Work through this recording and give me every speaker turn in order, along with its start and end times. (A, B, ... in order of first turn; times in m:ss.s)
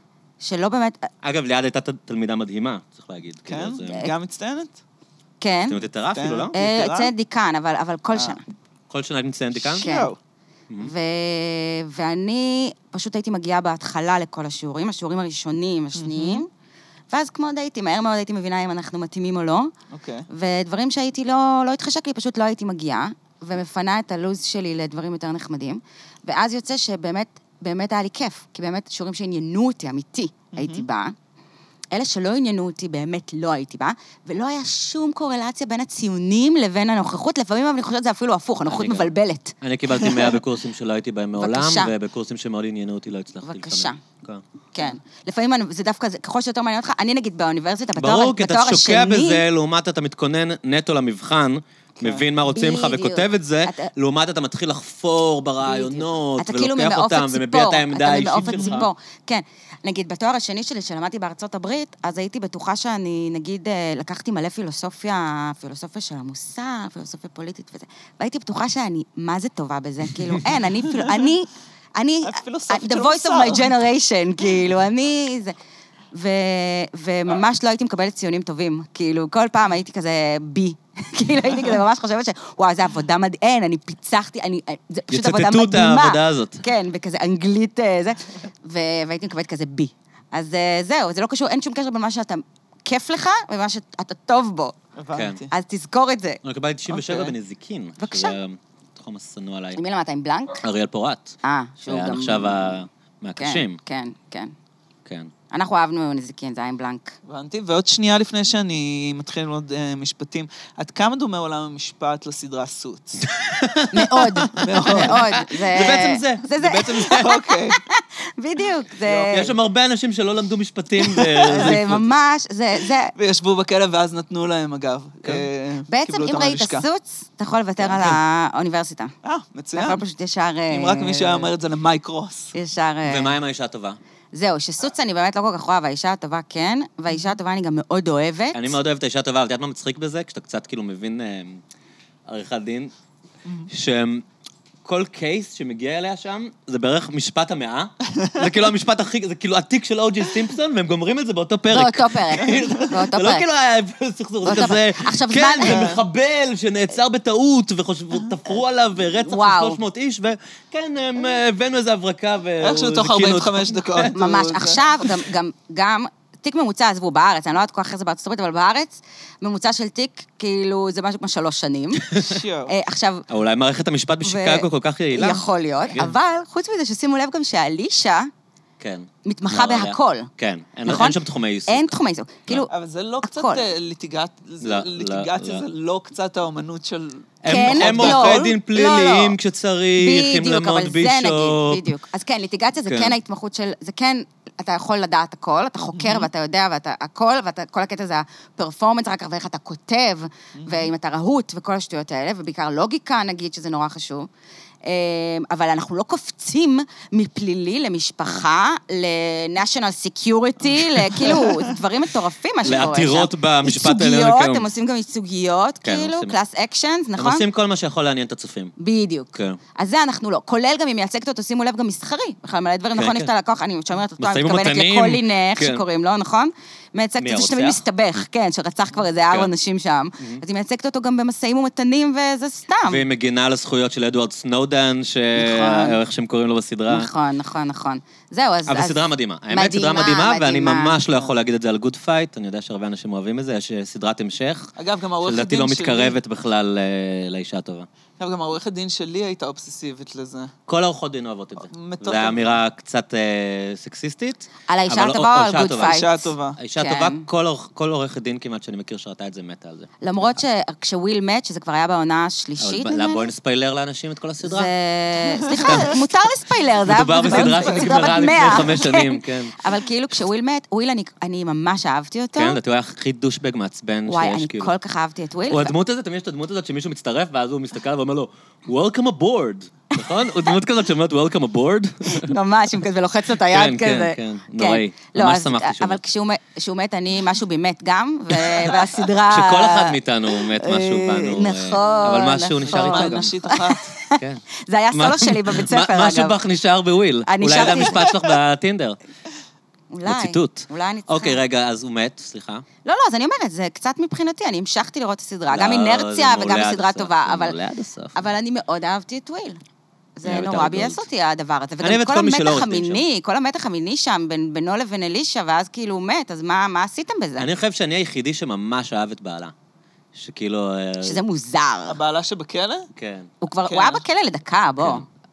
0:00.4-0:01.1 A
0:01.2-0:04.1 B
0:03.5-0:04.8 C
0:05.4-0:05.8 A
0:05.7-0:06.6 B
0:06.1-0:07.1 C
0:06.5-0:08.4 A
0:08.9-0:09.9 B
0:09.7-0:10.2 C
0:09.7-0:10.1 A
0:10.8-0:16.5 A
0:16.0-0:16.4 C
0:17.1-0:19.7 A
0:19.9-0:20.3 C
0:20.3-0:31.1 A
0:30.5-0:30.8 C
0:31.9-0:39.6 A
0:38.7-0:44.4 B
0:41.4-0:41.9 A
0:43.4-0:44.0 A
0:44.7-0:49.4 A
0:48.0-0:58.9 B
0:52.1-0:53.9 A
0:55.6-1:15.6 A
0:58.4-0:58.8 C
1:12.2-1:13.7 C
1:16.1-1:34.7 A
1:25.1-1:26.6 B
1:35.0-1:35.5 C
1:35.1-1:35.4 B
1:35.5-1:36.4 A
1:36.4-1:39.8 B
1:36.9-1:37.3 A
1:38.0-1:38.4 A
1:39.7-1:40.6 A
1:40.5-1:41.3 B
1:41.4-1:42.8 A
1:41.9-1:43.8 B
1:43.4-1:44.5 A
1:45.0-1:45.3 B
1:45.5-1:47.2 A
1:47.2-1:53.3 C
1:53.3-1:57.4 B
1:53.9-1:59.5 A
1:54.6-1:55.4 C
1:57.1-1:57.8 C
1:59.3-2:02.0 B
2:01.1-2:03.1 A
2:01.5-2:01.8 C
2:03.1-2:06.8 C
2:05.9-2:09.1 A
2:09.2-2:10.0 C
2:09.7-2:11.5 A
2:10.7-2:12.5 C
2:12.5-2:13.4 A
2:13.0-2:14.0 B
2:14.3-2:18.8 A
2:18.5-2:21.6 B
2:22.3-2:22.9 B
2:23.7-2:24.2 B
2:24.8-2:44.1 B
2:31.7-2:33.4 A
2:32.5-2:32.7 C
2:34.4-2:35.9 A
2:35.6-2:36.0 C
2:39.2-2:39.8 A
2:42.6-2:45.1 C
2:44.1-2:52.1 A
2:52.1-2:52.7 C
2:52.7-2:53.3 A
2:53.3-2:56.1 B
2:54.2-2:58.3 A
2:58.8-3:01.9 B
2:59.2-3:00.3 A
3:00.8-3:02.7 A
3:02.7-3:08.5 C
3:03.2-3:03.6 A
3:04.6-3:05.6 B
3:07.4-3:11.9 B
3:07.4-3:09.4 A
3:10.0-3:24.3 A
3:12.8-3:13.2 B
3:16.0-3:16.3 C
3:20.6-3:20.9 C
3:24.8-3:37.4 A
3:31.0-3:31.2 B
3:32.6-3:34.7 B
3:35.8-3:36.3 B
3:37.2-3:38.7 B
3:38.8-3:53.0 A
3:42.9-3:43.3 B
3:44.2-3:45.8 B
3:47.2-3:47.8 B
3:52.8-3:57.1 B
3:55.3-3:56.0 A
3:56.9-4:01.0 A
3:58.7-4:07.9 B
4:04.8-4:06.2 C
4:08.2-4:10.5 C
4:10.7-4:16.0 B
4:11.7-4:12.6 C
4:14.7-4:17.2 A
4:15.7-4:16.6 C
4:16.6-4:20.4 B
4:20.0-4:23.3 A
4:22.6-4:24.7 B
4:24.4-4:32.6 A
4:25.3-4:25.9 C
4:25.6-4:26.1 B
4:26.8-4:29.6 B
4:27.2-4:28.7 C
4:32.3-4:34.7 B
4:34.1-4:35.7 A
4:35.5-4:42.4 B
4:42.0-4:56.4 A
4:43.5-4:46.0 B
4:48.3-4:53.3 B
4:52.6-4:53.9 C
4:54.2-4:59.0 B
4:57.2-4:58.4 A
4:59.9-5:01.4 A
5:00.0-5:02.6 B
5:02.8-5:07.6 A
5:05.5-5:08.3 B
5:08.1-5:09.6 A
5:10.2-5:17.5 A
5:10.2-5:11.0 B
5:11.8-5:13.0 B
5:17.4-5:19.5 B
5:20.1-5:21.2 B
5:21.0-5:22.0 A
5:21.9-5:22.9 C
5:23.0-5:23.3 B
5:23.4-5:25.0 A
5:23.7-5:24.0 C
5:24.8-5:25.0 B